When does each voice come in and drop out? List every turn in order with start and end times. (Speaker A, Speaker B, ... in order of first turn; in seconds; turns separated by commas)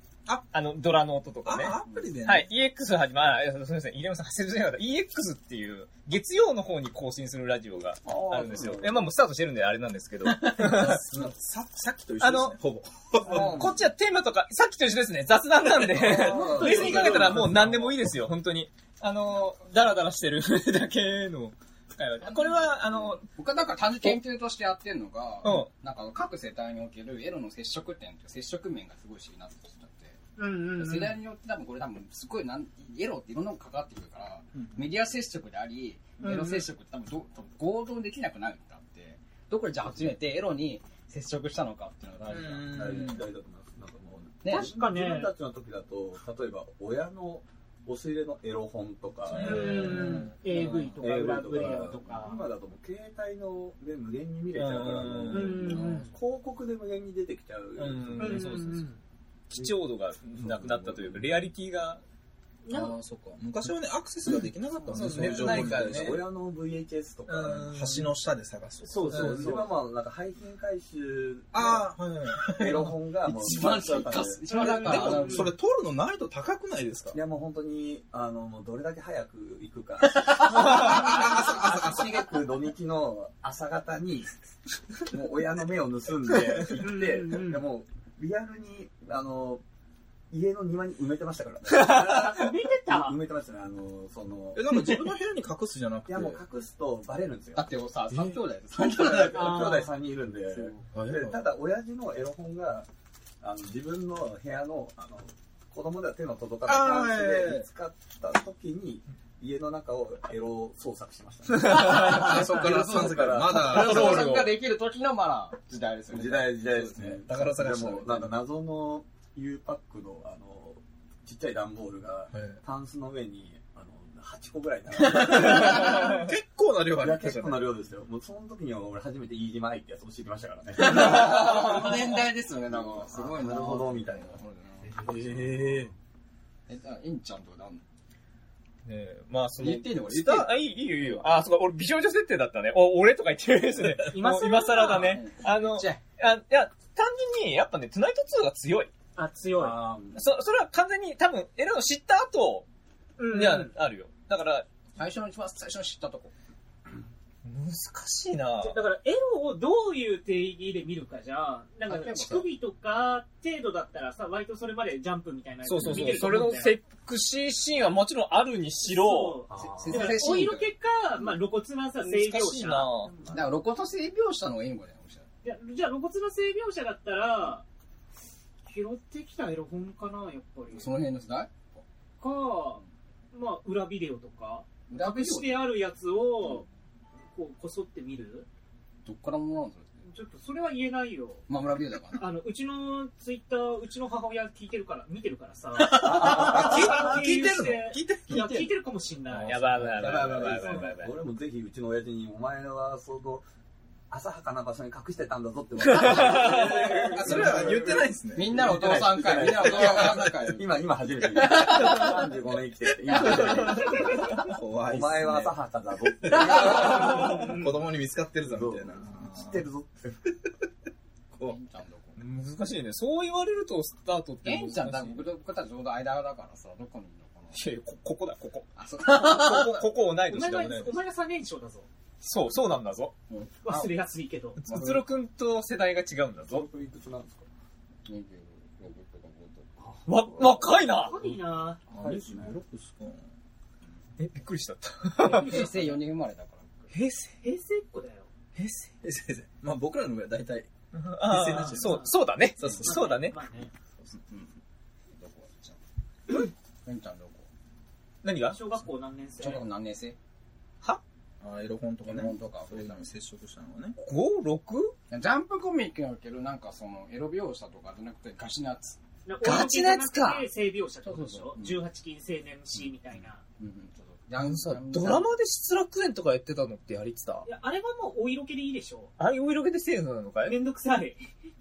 Speaker A: 0.5-11.0, Speaker B: 1.4-2.5, Speaker C: 8.1-9.1, Speaker D: 10.3-10.6, Speaker B: 10.5-13.7, Speaker A: 12.2-12.6, Speaker D: 13.2-13.7, Speaker C: 13.2-13.7, Speaker A: 13.3-23.2, Speaker B: 15.8-17.7, Speaker C: 16.2-17.7, Speaker D: 16.3-17.3, Speaker E: 16.6-17.1, Speaker D: 22.2-30.2, Speaker A: 25.4-25.7, Speaker E: 30.4-31.1, Speaker D: 30.8-43.1, Speaker B: 34.5-34.8, Speaker E: 36.2-36.6, Speaker B: 42.3-43.2, Speaker C: 42.7-58.6, Speaker D: 44.4-44.7, Speaker E: 44.5-45.3, Speaker B: 49.3-50.4, Speaker E: 49.4-52.4, Speaker A: 49.5-49.9, Speaker D: 50.5-50.8, Speaker A: 51.0-51.9, Speaker A: 54.5-55.6, Speaker B: 55.2-56.0, Speaker E: 55.3-56.1, Speaker D: 55.7-56.0, Speaker A: 57.8-58.9, Speaker E: 58.2-59.0, Speaker A: 59.5-62.0, Speaker C: 60.6-61.2, Speaker E: 62.7-63.0, Speaker B: 62.7-66.2, Speaker C: 64.8-67.9, Speaker A: 64.9-66.2, Speaker A: 67.3-68.0, Speaker B: 67.5-69.6, Speaker E: 68.8-69.6, Speaker C: 69.0-71.8, Speaker B: 71.5-72.5, Speaker D: 72.3-75.5, Speaker C: 72.4-74.9, Speaker E: 74.5-75.5, Speaker B: 74.8-77.2, Speaker C: 77.1-84.4, Speaker B: 80.5-82.0, Speaker C: 84.9-89.6, Speaker E: 86.7-87.6, Speaker C: 90.3-94.9, Speaker E: 91.8-93.1, Speaker B: 94.5-96.4, Speaker C: 96.1-97.7, Speaker D: 97.5-99.9, Speaker C: 98.9-102.9, Speaker E: 99.3-99.9, Speaker D: 100.5-100.9, Speaker B: 100.9-101.4, Speaker C: 103.4-113.8, Speaker B: 106.7-107.7, Speaker A: 111.5-112.4, Speaker B: 112.1-114.3, Speaker D: 112.4-116.5, Speaker A: 113.5-114.5, Speaker C: 116.1-126.2, Speaker B: 116.6-118.3, Speaker B: 125.1-127.7, Speaker C: 127.0-132.0, Speaker D: 130.9-134.9, Speaker A: 131.2-131.7, Speaker C: 132.7-135.9, Speaker B: 135.6-135.9, Speaker D: 136.7-137.8, Speaker A: 138.8-148.9, Speaker D: 139.6-141.3, Speaker E: 144.1-145.2, Speaker D: 144.8-146.0, Speaker E: 149.2-149.8, Speaker C: 149.6-150.2, Speaker A: 150.1-152.7, Speaker E: 153.2-153.7, Speaker A: 153.3-154.7, Speaker D: 155.0-156.3, Speaker A: 157.4-158.8, Speaker E: 158.6-166.8, Speaker D: 161.9-162.4, Speaker A: 165.6-169.4, Speaker B: 165.8-166.2, Speaker E: 168.8-173.4, Speaker C: 169.5-170.2, Speaker D: 169.6-170.7, Speaker A: 172.0-173.1, Speaker D: 173.3-175.2, Speaker E: 175.4-177.6, Speaker E: 178.7-180.9, Speaker D: 180.7-181.6, Speaker E: 182.2-186.7, Speaker D: 184.9-185.6, Speaker E: 187.3-188.4, Speaker D: 189.0-189.9, Speaker E: 190.1-191.4, Speaker D: 191.5-192.3, Speaker E: 192.2-200.9, Speaker B: 195.8-198.7, Speaker A: 199.4-201.1, Speaker C: 199.7-203.4, Speaker C: 204.1-207.9, Speaker A: 205.8-208.1, Speaker B: 206.4-208.7, Speaker D: 208.3-210.6, Speaker C: 208.4-214.1, Speaker D: 211.2-212.3, Speaker A: 211.8-212.1, Speaker D: 213.1-213.7, Speaker A: 213.2-214.2, Speaker B: 213.3-215.6, Speaker C: 214.8-217.5, Speaker B: 216.2-219.6, Speaker A: 216.6-217.4, Speaker E: 217.5-217.8, Speaker C: 218.4-220.3, Speaker D: 221.4-222.2, Speaker A: 222.2-225.2, Speaker D: 224.4-227.6, Speaker A: 227.5-230.9, Speaker D: 228.8-229.9, Speaker E: 230.3-231.9, Speaker A: 232.2-233.1, Speaker D: 233.3-233.8, Speaker E: 233.6-234.6, Speaker A: 234.6-236.7, Speaker D: 234.7-235.0, Speaker C: 236.5-237.4, Speaker D: 238.0-239.7, Speaker A: 240.0-241.2, Speaker E: 241.0-241.8, Speaker B: 241.9-243.2, Speaker C: 241.9-242.6, Speaker A: 244.2-245.7, Speaker D: 245.2-246.9, Speaker E: 245.3-245.7, Speaker A: 246.9-247.3, Speaker E: 247.4-248.3, Speaker B: 249.0-250.7, Speaker A: 250.9-253.4, Speaker B: 251.2-253.0, Speaker E: 251.8-252.1, Speaker E: 252.8-253.7, Speaker D: 254.3-254.5, Speaker D: 255.1-255.8, Speaker D: 256.4-257.5, Speaker A: 258.2-258.6, Speaker E: 258.5-259.6, Speaker D: 259.4-260.2, Speaker B: 261.4-263.9, Speaker D: 262.0-263.0, Speaker A: 264.0-264.9, Speaker D: 265.1-269.0, Speaker E: 269.2-273.4, Speaker A: 269.4-270.5, Speaker D: 271.0-271.8, Speaker D: 273.6-275.3, Speaker A: 274.4-277.5, Speaker E: 277.4-279.1, Speaker A: 279.2-280.6, Speaker E: 280.4-281.2